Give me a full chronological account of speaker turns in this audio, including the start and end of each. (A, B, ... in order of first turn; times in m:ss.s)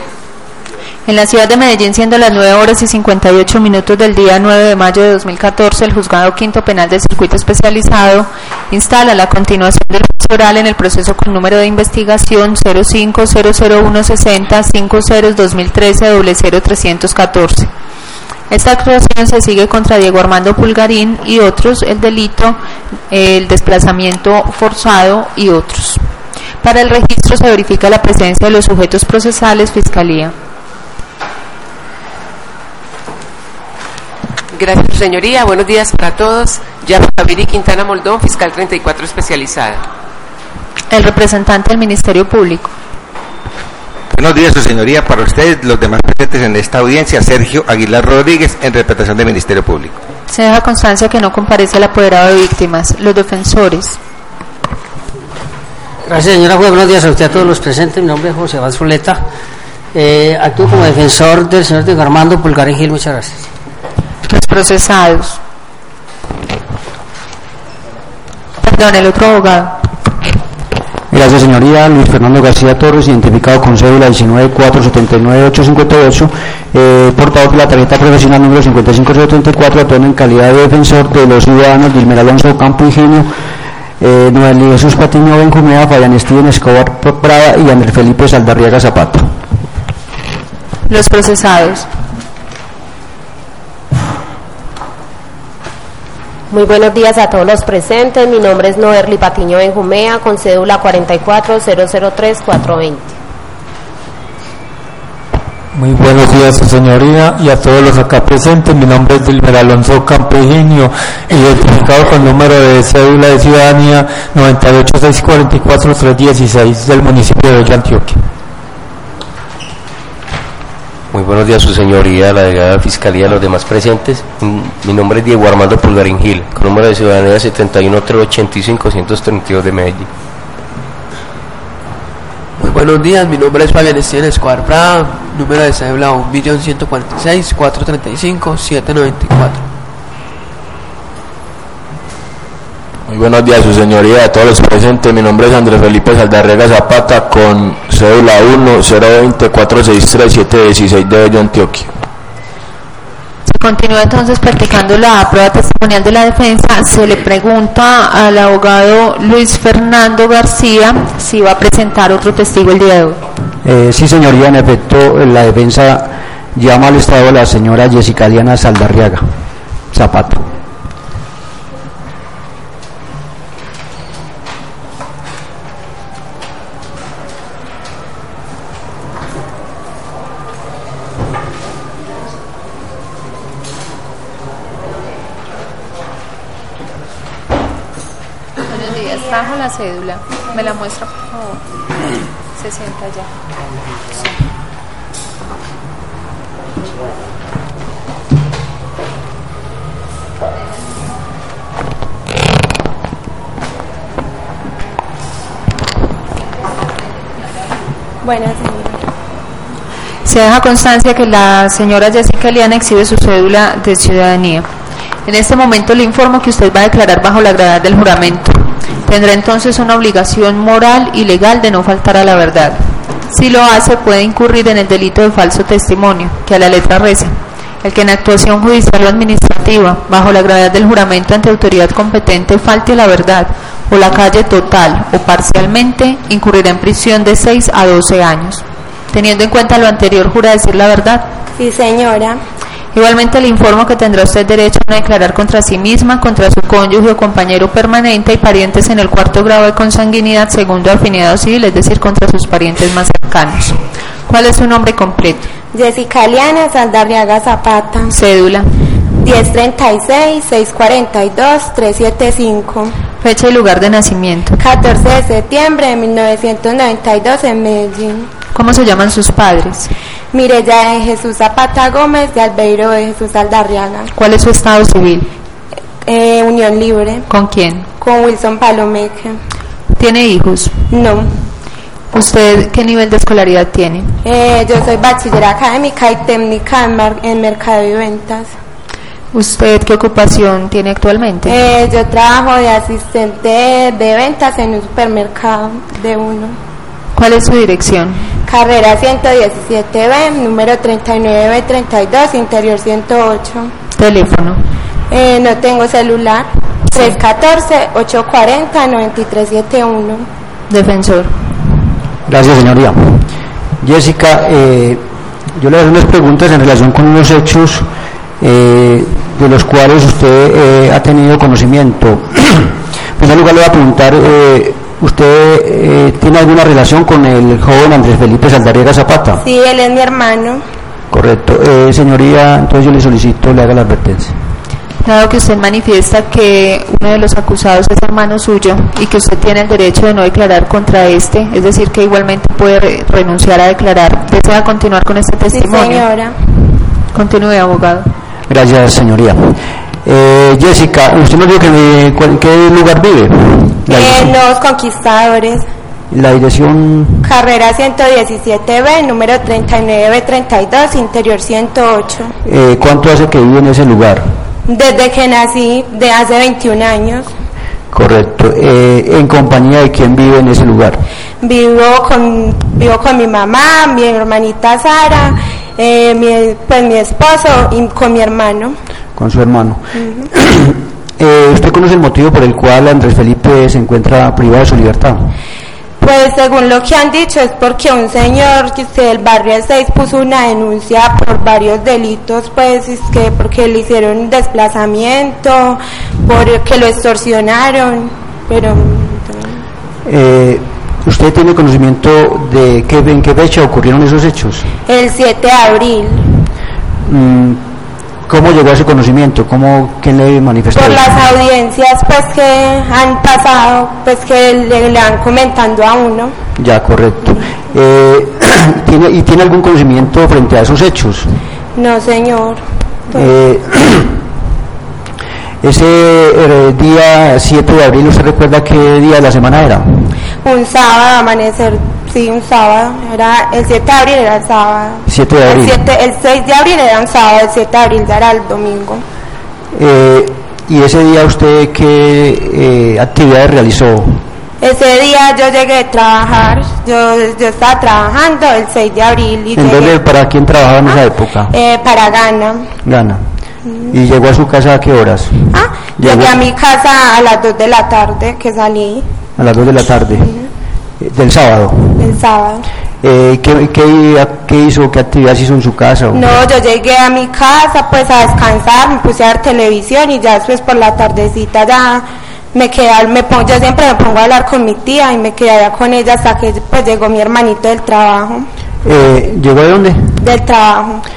0:01.0-0:17.7 A
0:18.5-0:22.6 A
0:23.1-0:26.0 A
0:26.6-0:30.3 A
0:34.5-0:39.8 B
0:40.9-0:42.7 A
0:44.1-0:50.0 C
0:50.3-0:54.0 A
0:56.1-0:59.2 D
0:59.9-1:03.4 D
1:04.3-1:05.4 A
1:08.6-1:09.8 A
1:11.1-1:23.3 E
1:24.0-1:29.3 E
1:30.9-1:31.8 A
1:36.5-1:43.1 F
1:45.7-1:58.2 G
2:01.1-2:10.1 H
2:12.6-2:19.6 I
2:23.1-2:31.9 J
2:33.4-2:43.2 A
2:43.6-2:49.3 E
2:49.9-2:50.5 E
3:08.7-3:11.6 A
3:12.6-3:13.3 A
3:28.2-3:29.0 K
3:30.2-3:34.6 A
3:35.2-4:01.3 A
4:01.6-4:02.4 K
4:02.9-4:15.5 A
4:15.7-4:18.1 K
4:18.1-4:18.7 A
4:19.2-4:23.0 K
4:23.2-4:24.6 A
4:24.6-4:28.3 K
4:28.5-4:29.9 A
4:30.3-4:34.1 K
4:34.1-4:35.3 A
4:36.0-4:37.2 K
4:37.3-4:37.9 A
4:38.0-4:39.4 K
4:39.9-4:40.8 A
4:40.9-4:41.3 K
4:42.1-4:44.2 A
4:44.2-4:48.5 K
4:49.3-4:51.6 A
4:51.4-4:56.6 K
4:57.2-4:58.3 A
4:58.4-5:03.7 K
5:04.0-5:04.6 A
5:05.1-5:10.3 K
5:10.7-5:11.3 A
5:12.3-5:13.3 E
5:13.8-5:15.0 E
5:15.5-5:17.9 E
5:18.4-5:29.4 E
5:29.4-5:30.6 K
5:31.1-5:34.3 E
5:35.0-5:46.0 A
5:45.5-5:46.3 K
5:47.1-5:48.1 A
5:48.5-5:54.4 E
5:53.9-5:55.6 K
5:56.1-5:57.3 E
5:57.2-6:02.3 K
6:02.4-6:04.3 E
6:04.7-6:07.3 K
6:07.9-6:11.0 E
6:11.4-6:18.8 K
6:19.2-6:25.3 E
6:20.0-6:20.3 K
6:26.0-6:39.6 K
6:40.0-6:44.7 E
6:44.9-6:46.4 K
6:47.0-6:47.7 E
6:48.3-6:51.1 E
6:50.7-6:56.3 K
6:56.6-7:01.3 E
7:01.8-7:03.2 K
7:03.1-7:04.2 E
7:05.6-7:10.0 E
7:10.4-7:19.0 K
7:15.1-7:15.8 E
7:19.7-7:24.2 E
7:24.6-7:29.9 K
7:29.5-7:31.5 E
7:31.5-7:32.7 K
7:32.8-7:33.2 E
7:33.9-7:36.4 E
7:35.5-7:39.1 K
7:39.4-7:40.3 E
7:40.1-7:40.5 K
7:41.0-7:42.2 E
7:42.0-7:42.7 K
7:43.0-7:46.3 E
7:46.1-7:58.5 K
7:58.8-8:00.2 E
8:00.2-8:01.0 K